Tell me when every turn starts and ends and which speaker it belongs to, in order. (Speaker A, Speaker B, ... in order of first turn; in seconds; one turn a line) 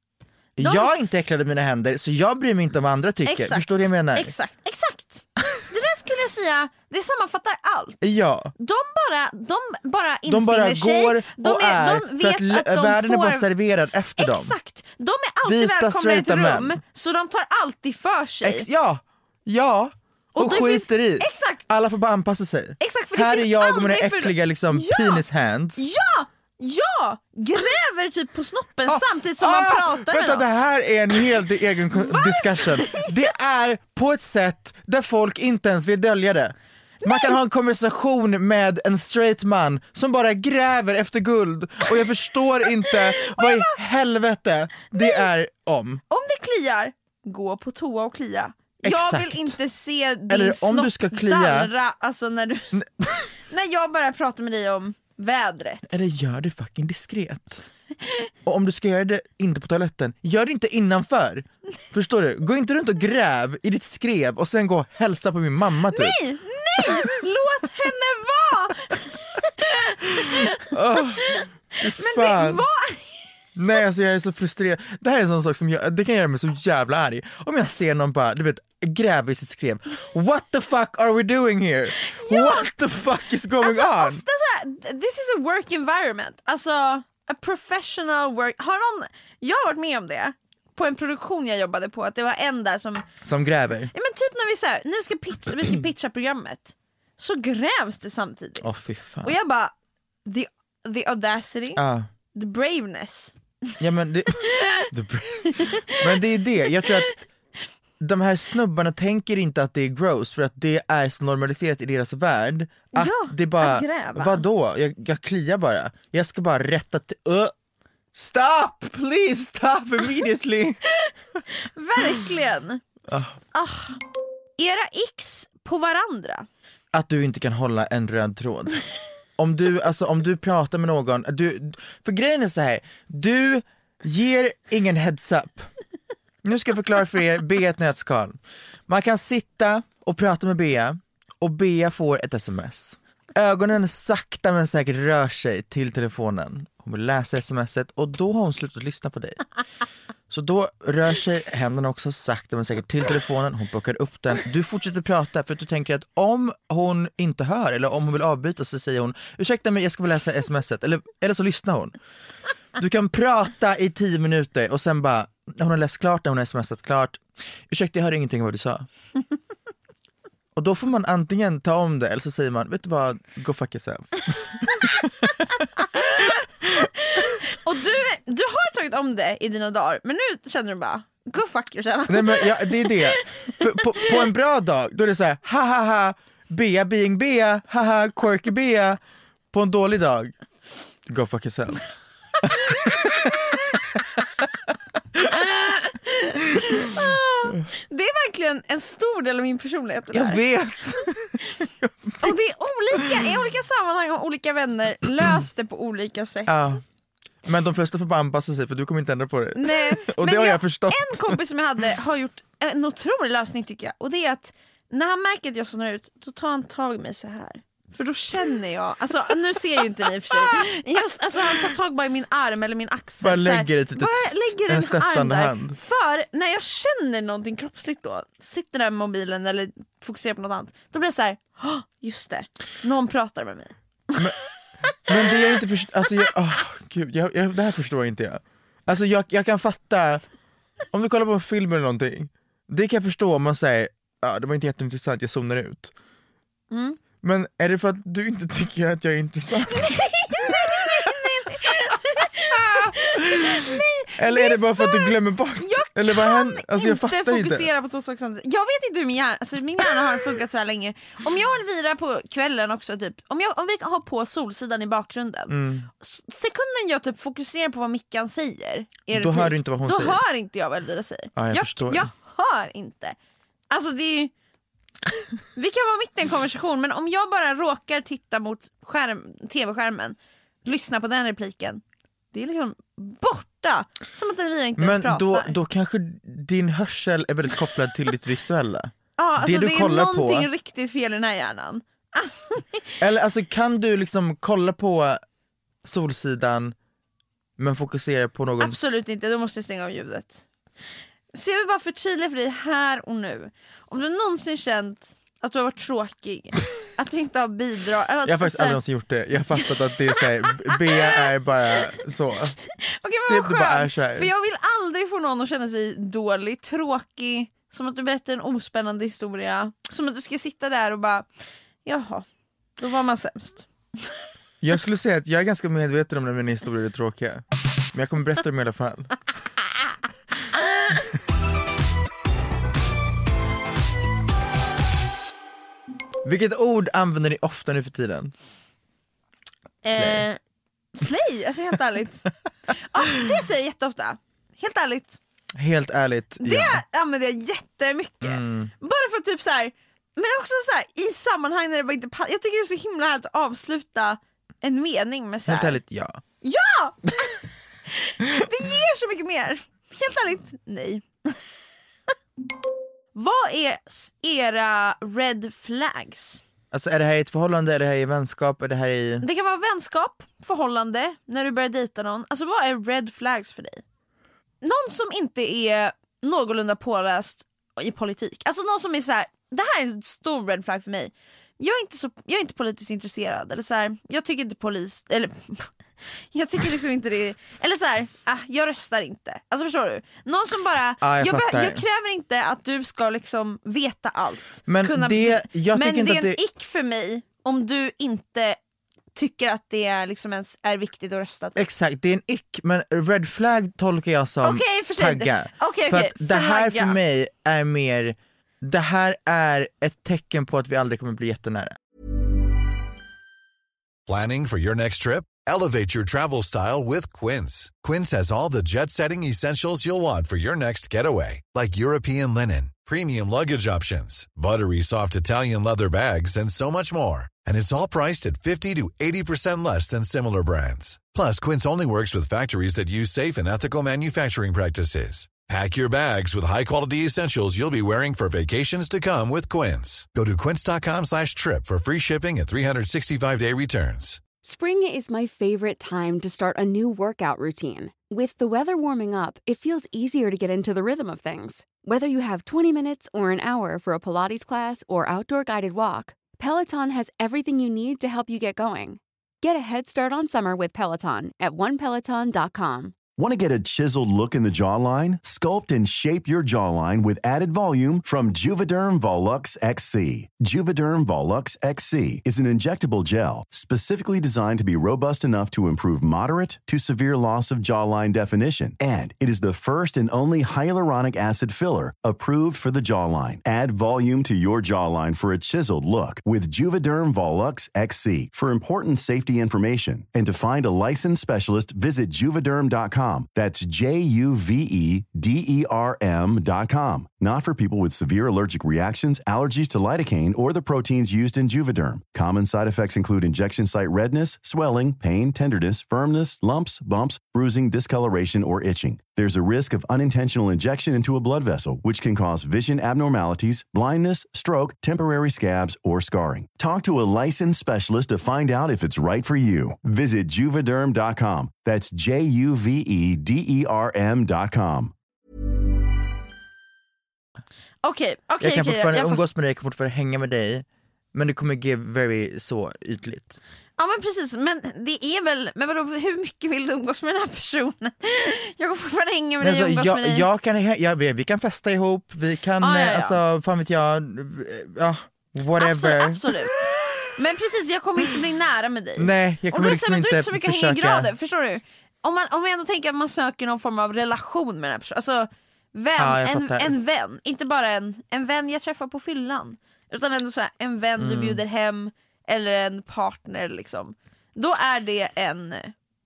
Speaker A: 0.6-4.3
Speaker B: 0.6-0.9
Speaker B: 3.2-8.0
Speaker A: 8.0-8.5
Speaker B: 8.6-13.5
Speaker A: 10.3-14.6
Speaker B: 14.2-18.7
Speaker A: 15.4-16.8
Speaker A: 18.4-25.8
Speaker B: 20.3-21.6
Speaker B: 22.8-25.2
Speaker B: 25.8-30.4
Speaker A: 28.9-46.0
Speaker B: 31.9-33.3
Speaker B: 37.0-37.4
Speaker B: 42.9-43.8
Speaker B: 44.9-45.2
Speaker B: 46.1-52.8
Speaker A: 48.8-49.6
Speaker A: 50.3-51.7
Speaker A: 52.7-53.3
Speaker B: 53.4-56.0
Speaker A: 55.9-57.6
Speaker A: 58.4-66.2
Speaker B: 65.9-71.5
Speaker A: 70.7-72.7
Speaker B: 72.0-73.3
Speaker A: 73.5-84.2
Speaker B: 82.0-82.7
Speaker B: 83.6-93.0
Speaker A: 93.2-93.9
Speaker B: 93.9-98.7
Speaker A: 98.6-99.3
Speaker B: 99.2-99.7
Speaker B: 100.2-101.8
Speaker A: 101.8-102.1
Speaker B: 102.3-103.8
Speaker A: 103.8-107.1
Speaker B: 104.6-104.9
Speaker B: 105.6-106.0
Speaker B: 106.8-107.1
Speaker A: 108.0-117.5
Speaker B: 112.9-114.4
Speaker A: 118.1-120.8
Speaker B: 121.5-124.0
Speaker A: 123.1-123.4
Speaker B: 124.6-126.5
Speaker A: 126.9-128.8
Speaker A: 129.4-135.7
Speaker A: 136.4-149.4
Speaker A: 150.3-162.0
Speaker A: 162.8-168.9
Speaker A: 170.5-175.4
Speaker B: 175.9-184.2
Speaker A: 182.1-189.0
Speaker A: 189.5-190.3
Speaker A: 191.1-191.8
Speaker A: 192.4-194.0
Speaker B: 195.3-200.4
Speaker A: 200.1-202.4
Speaker B: 202.2-206.6
Speaker A: 203.0-203.2
Speaker A: 206.5-206.8
Speaker A: 207.4-211.4
Speaker B: 209.6-234.2
Speaker A: 223.2-225.8
Speaker A: 235.0-240.2
Speaker A: 240.9-245.9
Speaker B: 246.7-247.0
Speaker A: 247.2-251.7
Speaker B: 249.8-273.1
Speaker A: 252.5-257.7
Speaker A: 265.5-265.9
Speaker A: 269.1-270.2
Speaker A: 271.4-272.1
Speaker B: 273.7-274.3
Speaker B: 275.5-281.8
Speaker B: 282.3-285.6
Speaker A: 284.8-290.5
Speaker B: 289.2-292.9
Speaker A: 293.0-295.2
Speaker A: 295.8-296.7
Speaker A: 297.6-298.8
Speaker B: 298.6-300.4
Speaker B: 301.3-308.8
Speaker A: 308.2-312.6
Speaker B: 310.7-311.2
Speaker B: 313.0-321.3
Speaker A: 313.3-314.3
Speaker B: 321.8-322.2
Speaker B: 322.8-324.1
Speaker A: 324.6-329.1
Speaker A: 336.2-338.3
Speaker A: 339.8-340.2
Speaker B: 339.8-340.4
Speaker B: 340.9-345.2
Speaker A: 345.5-346.8
Speaker B: 346.4-355.8
Speaker A: 348.2-348.7
Speaker A: 355.5-356.2
Speaker B: 356.4-361.5
Speaker B: 363.1-366.4
Speaker A: 366.7-369.2
Speaker B: 369.2-373.8
Speaker B: 374.6-385.7
Speaker B: 386.3-398.6
Speaker A: 391.0-391.8
Speaker A: 394.7-396.4
Speaker B: 399.1-401.6
Speaker A: 401.6-411.8
Speaker B: 404.4-407.0
Speaker C: 414.1-444.2
Speaker D: 444.4-462.9
Speaker E: 463.2-524.9
Speaker B: 527.8-529.2
Speaker A: 528.4-533.4
Speaker B: 533.8-540.2
Speaker A: 539.4-547.1
Speaker B: 542.6-543.2
Speaker B: 545.6-565.7
Speaker A: 549.0-551.1
Speaker A: 556.0-556.7
Speaker A: 561.0-561.4